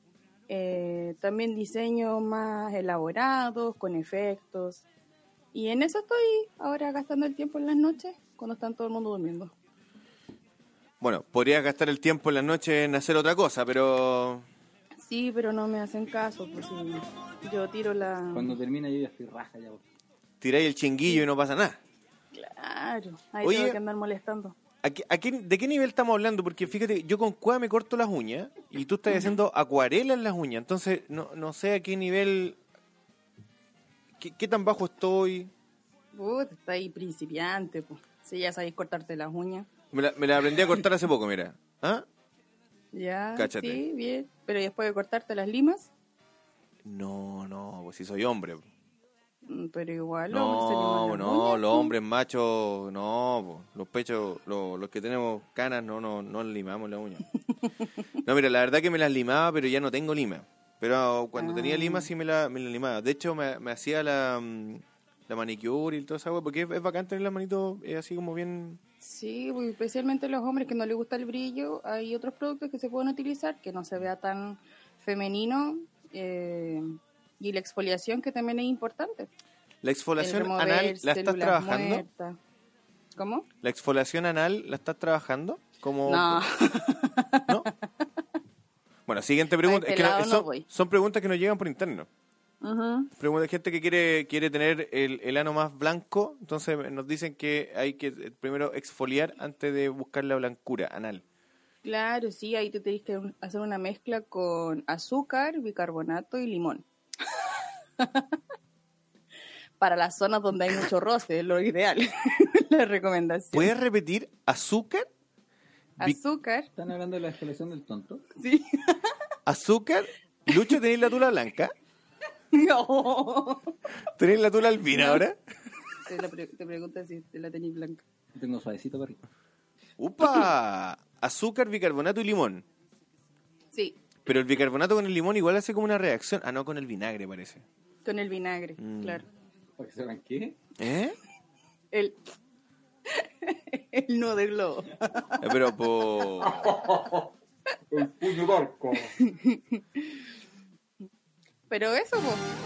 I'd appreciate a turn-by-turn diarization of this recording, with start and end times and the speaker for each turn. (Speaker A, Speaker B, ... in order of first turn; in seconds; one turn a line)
Speaker A: 0.5-4.9
Speaker A: 5.5-9.5
Speaker B: 11.0-14.5
Speaker A: 15.0-18.6
Speaker C: 18.3-19.8
Speaker B: 20.4-21.8
Speaker A: 22.3-24.6
Speaker B: 23.4-23.8
Speaker B: 24.8-32.6
Speaker B: 34.2-35.5
Speaker A: 36.1-39.7
Speaker B: 39.9-42.1
Speaker A: 42.9-45.9
Speaker B: 43.4-43.8
Speaker B: 46.9-48.7
Speaker A: 49.5-51.9
Speaker B: 50.3-57.2
Speaker B: 58.2-68.8
Speaker A: 61.4-62.1
Speaker A: 69.0-79.3
Speaker B: 79.8-82.0
Speaker A: 80.2-82.4
Speaker A: 83.2-83.5
Speaker B: 83.6-86.4
Speaker A: 86.1-88.1
Speaker B: 89.1-92.1
Speaker A: 89.6-90.7
Speaker A: 92.6-93.1
Speaker B: 93.2-101.2
Speaker A: 101.8-107.5
Speaker A: 108.0-108.4
Speaker A: 109.8-113.7
Speaker B: 113.5-115.1
Speaker A: 116.0-116.7
Speaker C: 116.8-118.2
Speaker A: 118.4-119.2
Speaker B: 119.5-121.7
Speaker A: 122.5-123.8
Speaker B: 124.1-125.4
Speaker A: 125.0-125.2
Speaker A: 126.0-128.0
Speaker C: 128.4-129.2
Speaker B: 130.0-132.7
Speaker A: 133.7-134.0
Speaker B: 134.2-137.7
Speaker A: 138.0-139.3
Speaker B: 138.8-139.2
Speaker C: 139.8-140.6
Speaker B: 140.8-141.2
Speaker A: 141.9-142.2
Speaker A: 143.1-145.6
Speaker B: 145.4-146.8
Speaker C: 146.6-147.2
Speaker C: 147.9-149.1
Speaker A: 148.0-148.4
Speaker A: 149.0-150.2
Speaker A: 151.7-152.4